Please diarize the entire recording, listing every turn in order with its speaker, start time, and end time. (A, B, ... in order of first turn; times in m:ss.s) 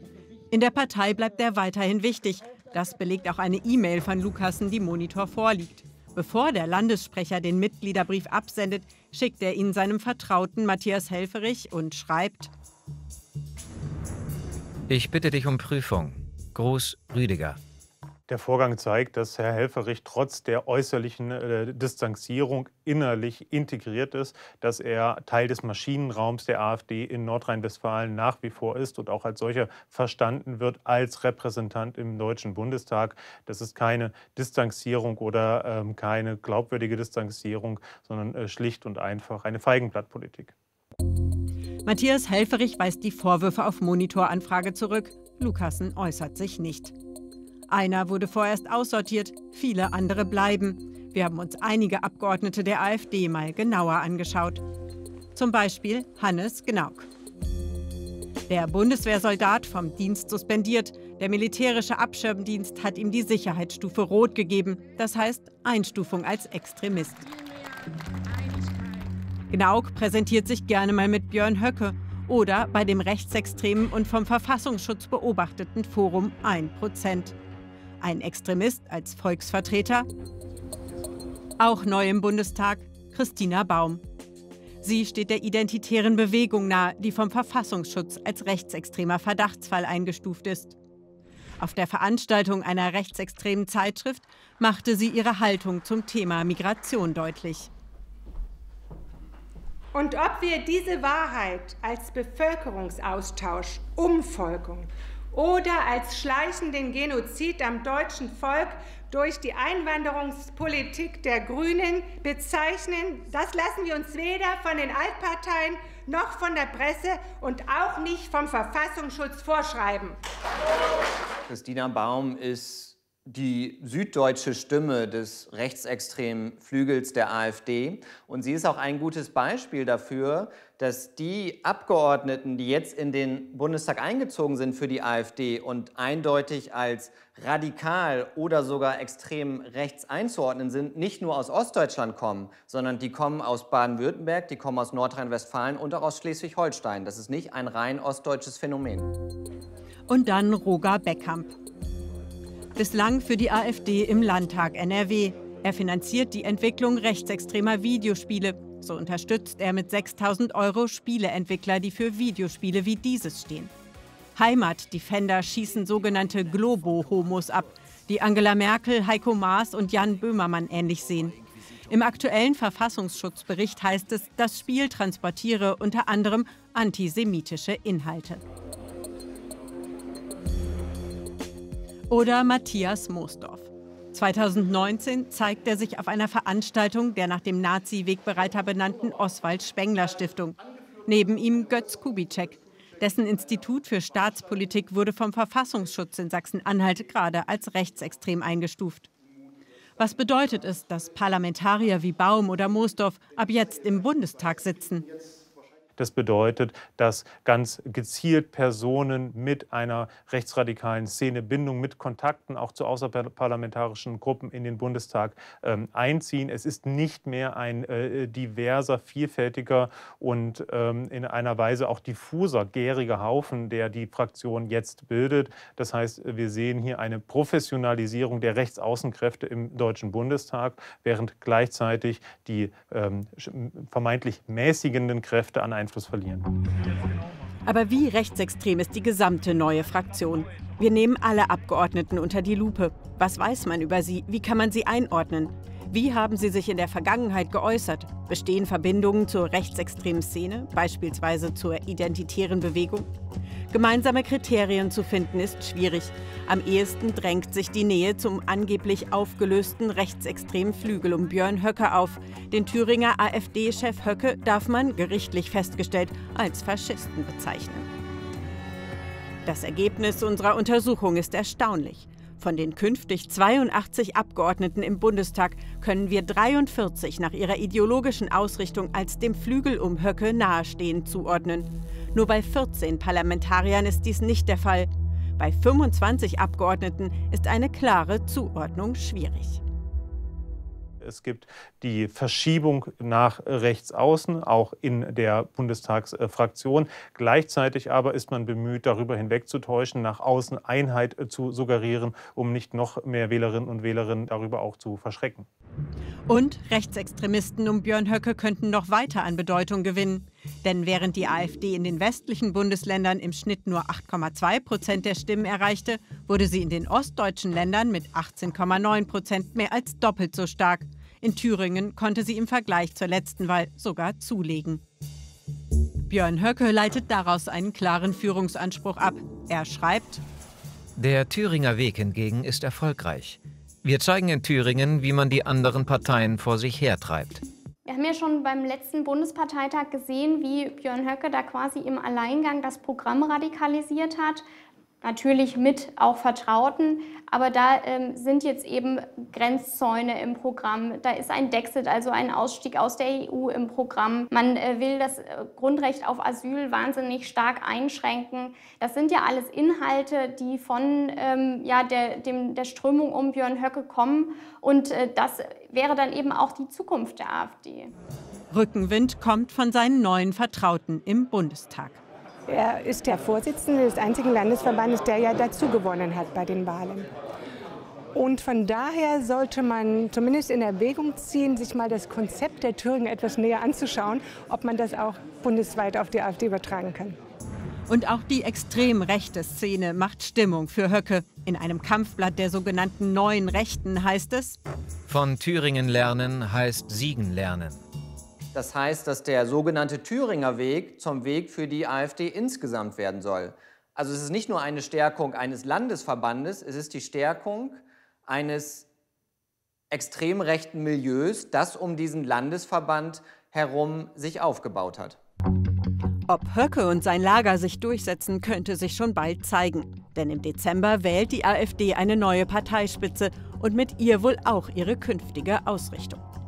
0:00.5-0:12.5 A
0:14.9-0:17.6 B
0:18.3-0:40.5 C
0:41.8-0:46.9 A
0:47.7-0:54.6 A
0:55.3-0:57.1 A
0:58.5-1:07.3 A
1:09.5-1:17.4 A
1:18.0-1:20.1 A
1:21.6-1:24.0 A
1:24.8-1:30.8 A
1:31.6-1:37.7 A
1:39.9-2:00.2 D
2:01.5-2:29.1 E
2:30.1-2:31.5 A
2:32.8-2:43.7 A
2:44.4-2:51.3 A
2:51.9-2:58.4 A
3:02.1-3:19.1 A
3:20.0-3:25.1 A
3:26.0-3:56.4 C
3:57.6-4:13.1 A
4:13.7-4:27.9 A
4:29.4-4:49.6 A
4:51.0-5:05.5 C
5:06.3-5:24.8 A
5:26.1-5:30.2 A
5:31.0-5:37.4 B
5:37.8-5:44.4 F
5:45.0-6:07.9 F
6:08.5-6:12.0 A
6:12.5-6:17.1 D
6:18.1-6:27.2 D
6:27.9-6:34.6 A
6:35.1-6:37.8 B
6:38.5-6:48.9 E
6:49.9-6:55.2 E
6:56.3-7:06.2 A